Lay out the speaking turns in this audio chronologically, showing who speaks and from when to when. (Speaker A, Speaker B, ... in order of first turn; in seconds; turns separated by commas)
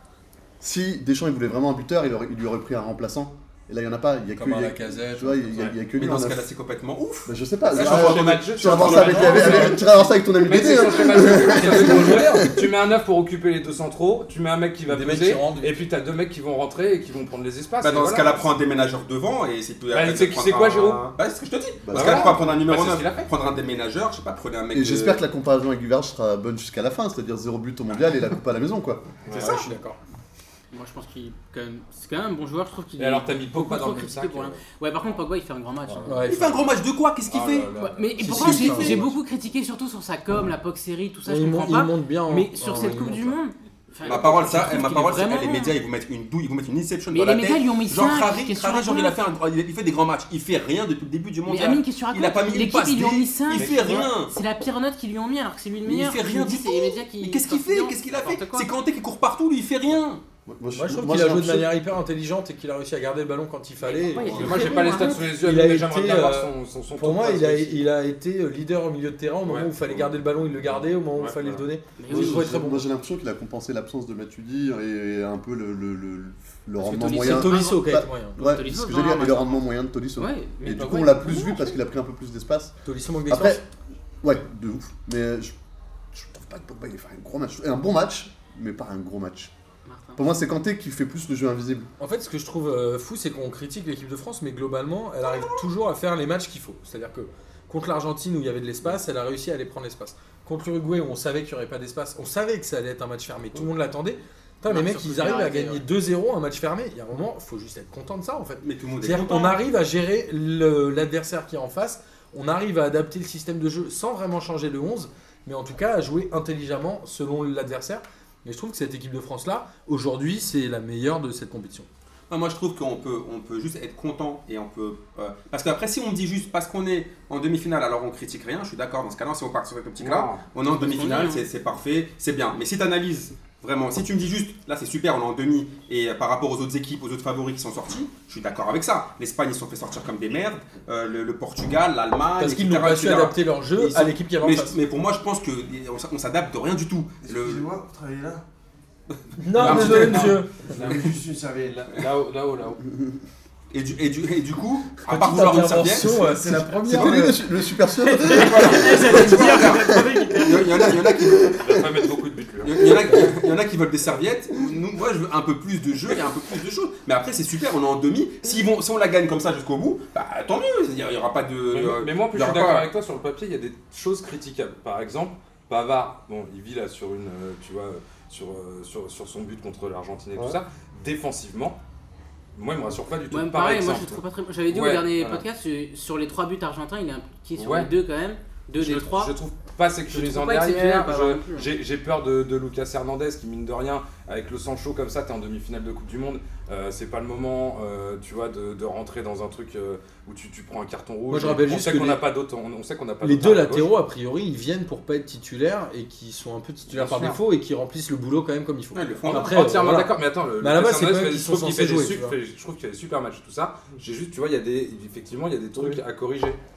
Speaker A: 0.6-6.5, Speaker B: 4.3-5.6, Speaker C: 5.8-9.8, Speaker A: 7.2-12.6, Speaker D: 7.7-18.4, Speaker B: 8.9-9.8, Speaker B: 11.7-12.1, Speaker B: 14.9-15.8, Speaker C: 17.8-25.2, Speaker D: 19.9-21.1, Speaker A: 21.8-22.5, Speaker D: 21.9-23.3, Speaker A: 24.7-29.1, Speaker D: 29.2-29.7, Speaker B: 29.3-30.0, Speaker E: 30.7-36.2, Speaker D: 33.0-34.6, Speaker D: 35.9-36.2, Speaker B: 36.0-36.7, Speaker C: 36.2-37.7, Speaker D: 37.3-38.2, Speaker E: 37.8-45.7, Speaker B: 38.1-39.1, Speaker C: 38.3-39.0, Speaker B: 41.2-43.4, Speaker C: 44.0-54.3, Speaker D: 44.0-44.3, Speaker E: 47.1-49.2, Speaker E: 51.4-58.7, Speaker D: 53.5-54.1, Speaker C: 55.9-60.2, Speaker A: 60.5-61.7, Speaker B: 60.7-72.9, Speaker E: 63.9-65.2, Speaker D: 64.1-67.8, Speaker C: 64.2-64.6, Speaker D: 69.4-71.7, Speaker E: 72.0-72.5, Speaker A: 72.1-82.8, Speaker E: 76.8-77.8, Speaker B: 76.8-78.4, Speaker E: 78.4-79.6, Speaker E: 80.2-81.8, Speaker B: 82.8-83.6, Speaker A: 83.3-83.6, Speaker A: 84.2-85.5, Speaker A: 86.1-89.5, Speaker E: 89.8-90.2, Speaker A: 90.2-91.9, Speaker B: 92.0-121.9, Speaker E: 104.7-105.8, Speaker C: 108.6-109.6, Speaker C: 122.3-147.7, Speaker D: 130.0-130.4, Speaker E: 130.7-131.4, Speaker B: 142.4-144.8, Speaker F: 147.2-148.4, Speaker B: 149.4-150.7, Speaker D: 149.5-151.2, Speaker C: 149.6-150.3, Speaker F: 149.6-152.0, Speaker D: 151.9-152.8, Speaker A: 152.8-153.2, Speaker C: 153.7-157.2, Speaker B: 155.1-157.4, Speaker A: 156.2-159.7, Speaker E: 158.0-160.9, Speaker C: 158.2-161.7, Speaker A: 161.1-161.8, Speaker D: 161.6-163.0, Speaker C: 162.6-172.9, Speaker D: 171.7-181.8, Speaker A: 180.3-180.6, Speaker D: 182.5-185.4, Speaker E: 183.3-189.3, Speaker D: 187.6-187.9, Speaker D: 188.8-203.9, Speaker E: 190.1-191.7, Speaker B: 201.3-202.2, Speaker B: 203.2-212.3, Speaker D: 206.9-207.4, Speaker C: 208.9-209.5, Speaker D: 209.2-216.6